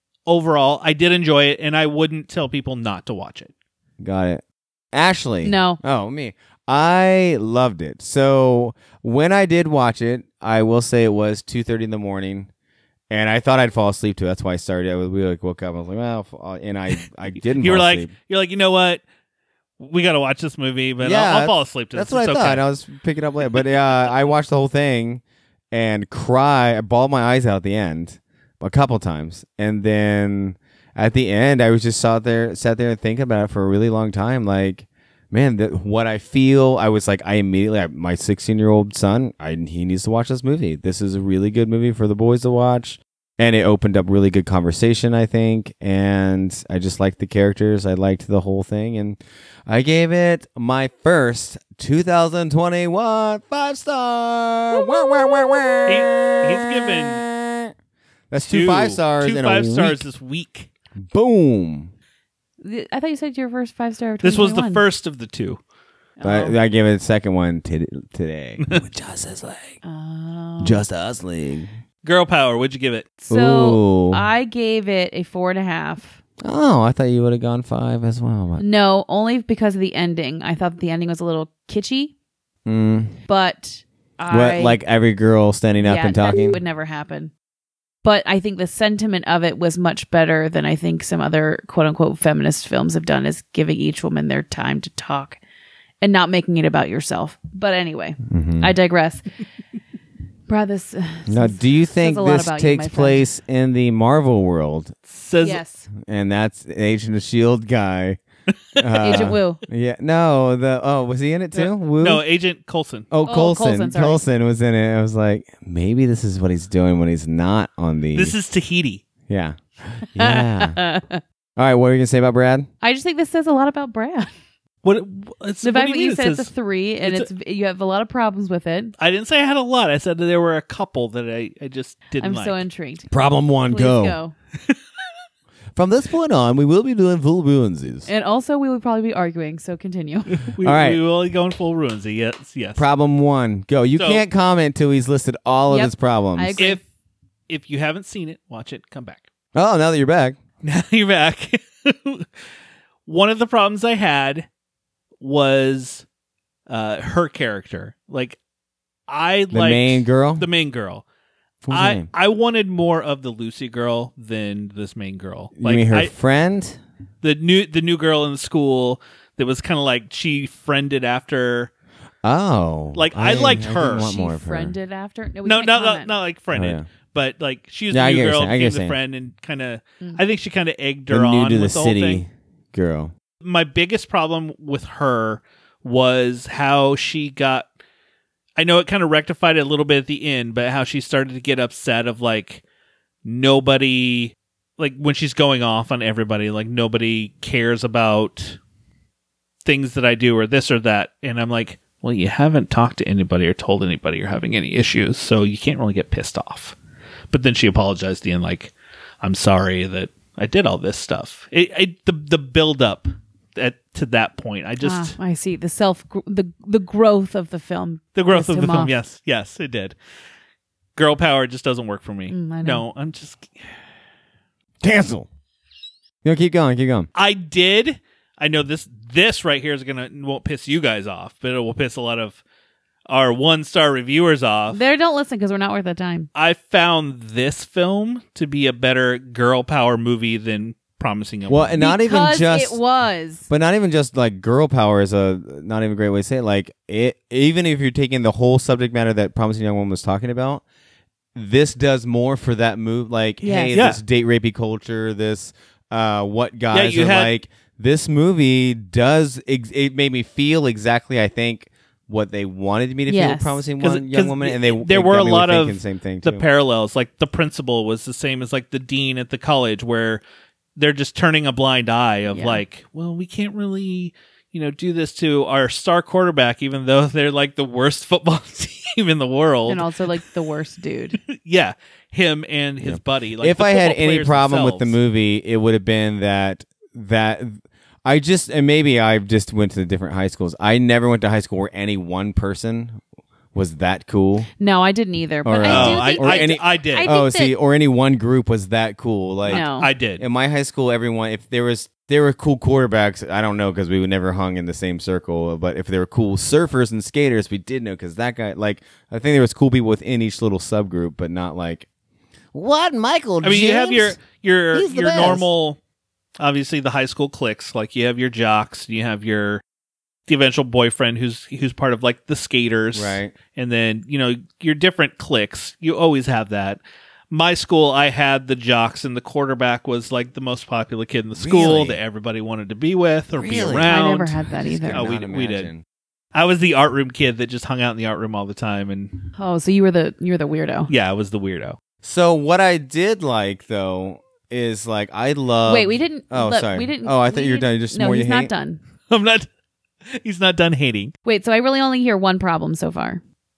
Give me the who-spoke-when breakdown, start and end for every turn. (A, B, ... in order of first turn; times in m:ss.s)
0:00.3-0:03.5 A
0:04.0-0:04.4 B
0:04.9-0:12.5 B
0:05.4-0:05.8 C
0:13.1-0:18.1 B
0:17.6-0:19.0 A
0:19.8-0:22.6 A
0:21.0-0:57.7 B
0:55.9-0:57.2 A
0:58.3-1:00.1 B
0:58.4-1:00.7 A
1:01.0-1:01.9 B
1:02.6-1:04.8 C
1:04.2-1:05.6 A
1:06.2-1:06.6 C
1:06.2-1:09.6 B
1:09.8-1:10.8 C
1:10.6-1:11.7 B
1:12.0-1:13.2 A
1:13.3-1:16.2 C
1:13.3-1:14.2 B
1:16.4-1:18.6 B
1:18.6-1:22.1 C
1:22.6-1:23.2 B
1:23.3-1:24.8 C
1:24.3-1:26.6 B
1:25.8-1:27.3 C
1:28.0-1:35.4 C
1:36.0-1:39.3 C
1:38.3-1:38.7 B
1:40.5-1:43.3 C
1:41.3-1:44.9 B
1:45.1-1:45.6 A
1:45.4-1:45.9 C
1:46.0-1:48.2 B
1:48.8-1:49.3 A
1:48.8-1:52.2 B
1:49.0-1:49.6 C
1:51.6-1:53.1 A
1:53.1-1:58.4 B
1:53.3-1:54.2 C
1:58.2-1:59.0 A
1:59.3-2:00.8 B
2:00.2-2:01.2 C
2:01.6-2:02.7 B
2:02.8-2:04.3 C
2:04.8-2:06.5 A
2:05.6-2:08.9 C
2:07.0-2:07.3 A
2:09.0-2:12.6 A
2:12.2-2:13.1 C
2:13.1-2:14.2 B
2:13.7-2:14.3 C
2:15.8-2:18.1 B
2:18.1-2:20.4 C
2:20.4-2:22.8 A
2:20.6-2:21.0 B
2:22.8-2:26.6 B
2:24.0-2:24.2 A
2:25.7-2:26.8 C
2:26.6-2:26.8 A
2:27.5-2:29.3 A
2:29.5-2:30.4 B
2:30.6-2:32.3 A
2:33.1-2:34.5 A
2:35.2-2:36.0 A
2:36.7-2:38.4 A
2:39.1-2:41.0 A
2:39.5-2:40.5 B
2:41.7-2:42.1 B
2:41.7-2:46.1 A
2:45.6-2:46.8 B
2:47.2-2:51.7 A
2:52.2-2:54.8 B
2:53.0-2:54.1 A
2:54.0-2:56.1 C
2:55.4-3:02.2 A
2:56.5-2:56.8 B
2:57.9-2:59.0 B
3:01.1-3:03.1 B
3:03.4-3:07.7 A
3:08.6-3:12.6 A
3:13.2-3:18.6 A
3:19.6-3:26.8 A
3:27.3-3:35.2 A
3:34.8-3:38.9 C
3:38.2-3:40.0 A
3:41.0-3:43.6 A
3:42.3-3:42.8 C
3:44.8-3:45.3 B
3:46.2-3:47.1 B
3:47.2-3:52.4 A
3:53.1-3:54.8 A
3:54.7-3:56.3 C
3:56.4-4:01.8 A
4:01.5-4:02.8 B
4:01.8-4:03.5 C
4:03.5-4:10.6 B
4:11.4-4:26.4 B
4:13.4-4:13.8 C
4:13.7-4:14.0 A
4:16.7-4:17.3 A
4:23.1-4:23.6 C
4:23.8-4:30.2 A
4:30.8-4:39.9 A
4:32.3-4:32.6 C
4:39.7-4:41.2 C
4:41.3-4:45.0 A
4:42.8-4:53.0 B
4:53.5-4:54.5 B
4:54.6-4:57.6 C
4:55.4-5:11.9 B
4:55.6-4:57.1 A
4:59.5-5:00.2 A
4:59.5-4:59.9 C
5:12.5-5:14.2 B
5:13.4-5:15.8 A
5:14.7-5:15.5 B
5:16.4-5:19.6 A
5:20.3-5:34.4 A
5:22.9-5:23.4 B
5:31.4-5:32.0 B
5:33.4-5:35.8 B
5:33.9-5:35.0 C
5:34.9-5:35.7 A
5:36.3-5:39.2 A
5:39.4-5:40.9 C
5:40.9-5:41.8 A
5:42.0-5:48.5 B
5:45.7-5:48.8 C
5:49.1-5:49.5 A
5:50.1-5:51.1 A
5:51.2-5:53.2 C